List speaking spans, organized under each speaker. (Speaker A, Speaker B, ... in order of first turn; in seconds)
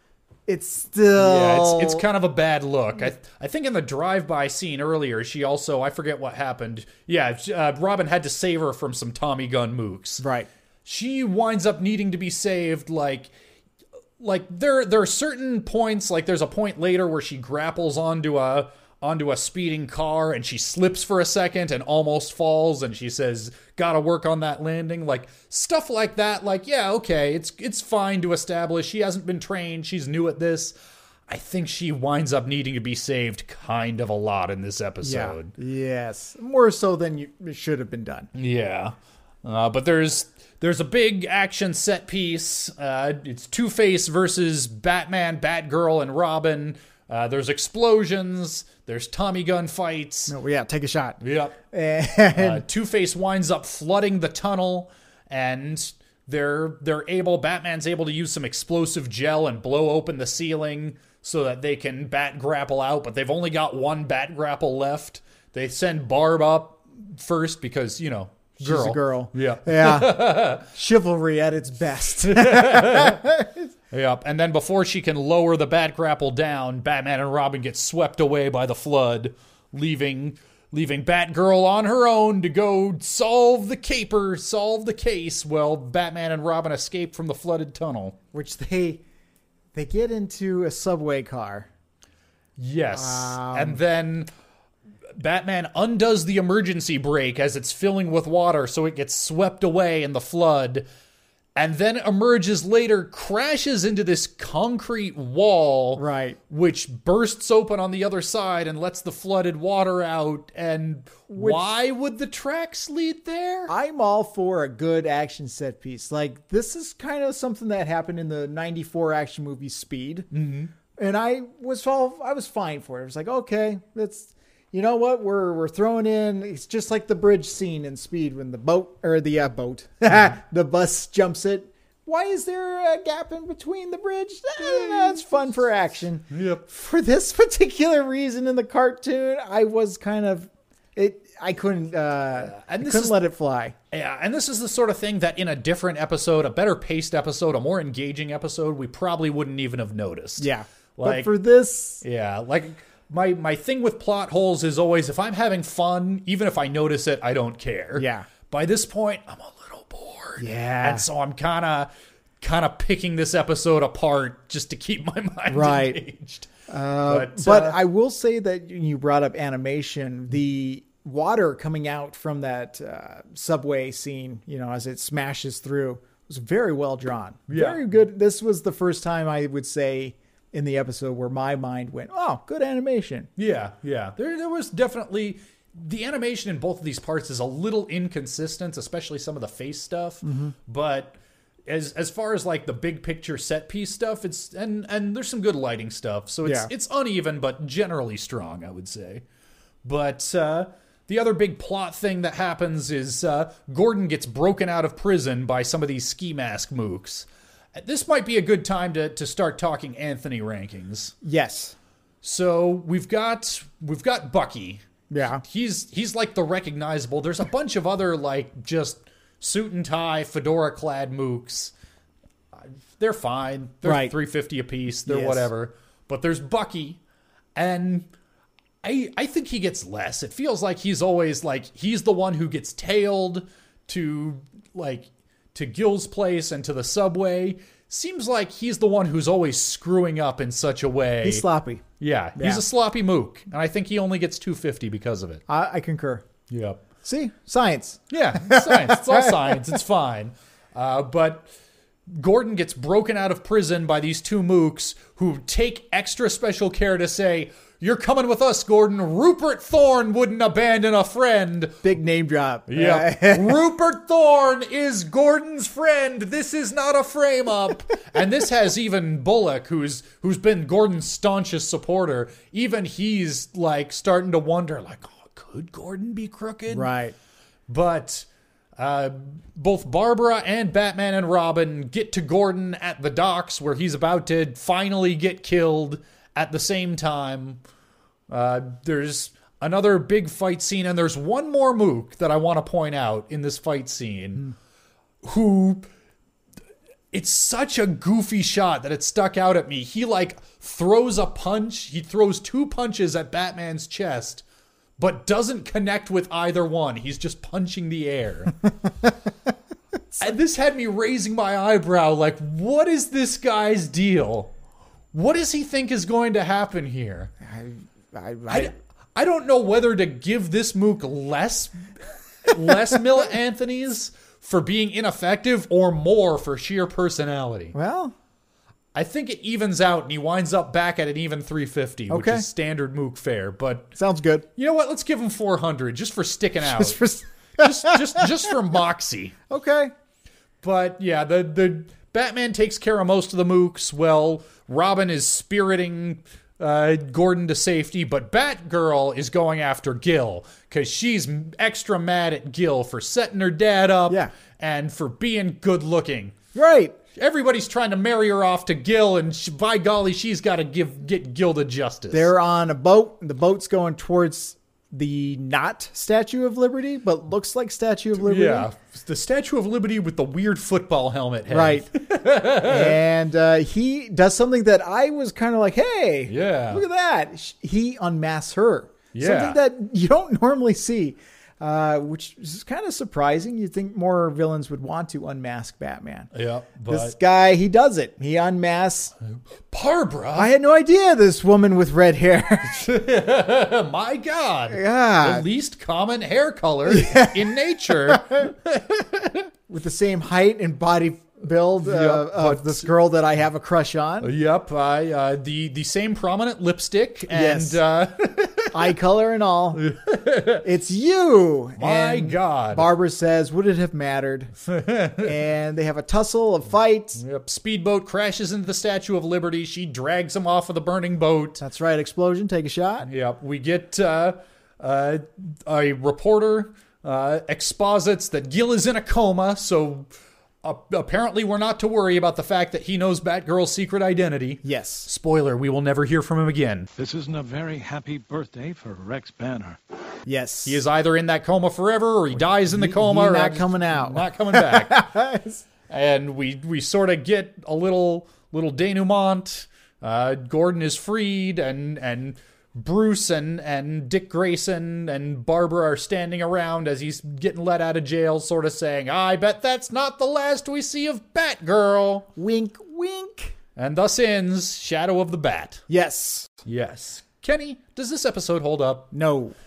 Speaker A: 0.5-2.0, 10.2-10.5, 35.0-38.3, 50.3-51.2, 51.7-52.6, 68.6-73.7, 88.3-89.0, 89.7-91.7, 92.9-93.8, 106.0-106.4, 111.3-111.7, 113.7-120.3, 120.9-143.7, 150.4-152.0, 157.9-158.3, 160.4-161.1, 165.5-166.0, 166.7-183.3, 190.2-190.5, 196.4-196.7, 211.2-211.7, 215.1-215.4, 223.8-224.1, 225.0-225.5, 241.2-241.8, 242.3-242.6, 245.5-246.2, 247.0-249.5, 261.8-263.6, 276.7-277.1, 317.4-318.7, 327.7-328.1, 332.1-332.4, 333.9-334.4, 336.6-338.4, 339.5-339.9, 356.5-357.0, 362.1-368.7, 371.5-371.9, 372.5-386.3, 386.9-389.1, 390.3-392.9, 394.7-395.4, 396.9-398.5, 399.7-404.3, 407.3-407.8, 408.7-409.9, 410.6-414.5, 415.1-417.2, 421.6-423.1, 434.6-435.1, 440.2-440.8, 442.6-445.6, 462.4-463.6, 465.9-466.6, 469.1-469.6
Speaker B: 1.2-10.2, 10.8-13.3, 14.2-30.7, 31.3-35.5, 38.3-50.3, 51.2-51.5, 52.3-70.7, 72.2-73.2, 73.9-88.2, 92.6-94.3, 95.1-100.9, 101.5-113.7, 120.3-120.7, 134.6-135.4, 136.3-136.6, 142.3-143.2, 143.9-151.3, 152.0-166.5, 167.1-167.8, 177.5-177.8, 183.3-199.2, 199.8-211.1, 212.2-214.8, 215.3-221.7, 222.5-227.0, 227.5-228.1, 228.8-241.4, 242.0-245.4, 246.5-246.8, 248.1-251.5, 252.1-261.8, 262.7-276.9, 277.7-287.6, 288.3-294.5, 295.2-295.9, 297.1-304.4, 305.0-308.6, 310.2-314.5, 315.1-317.3, 318.5-321.8, 322.4-327.7, 328.9-333.9, 334.6-337.0, 337.6-339.4, 340.6-356.3, 357.1-362.3, 368.2-373.0, 376.3-376.8, 379.1-379.6, 386.3-387.1, 389.7-390.5, 392.6-399.5, 401.8-402.9, 404.2-408.9, 409.8-410.6, 411.8-412.9, 414.6-415.3, 417.1-421.6, 423.0-430.1, 430.6-436.9, 440.6-445.0, 445.9-462.3, 463.8-465.8, 466.6-469.1
Speaker C: 437.0-439.8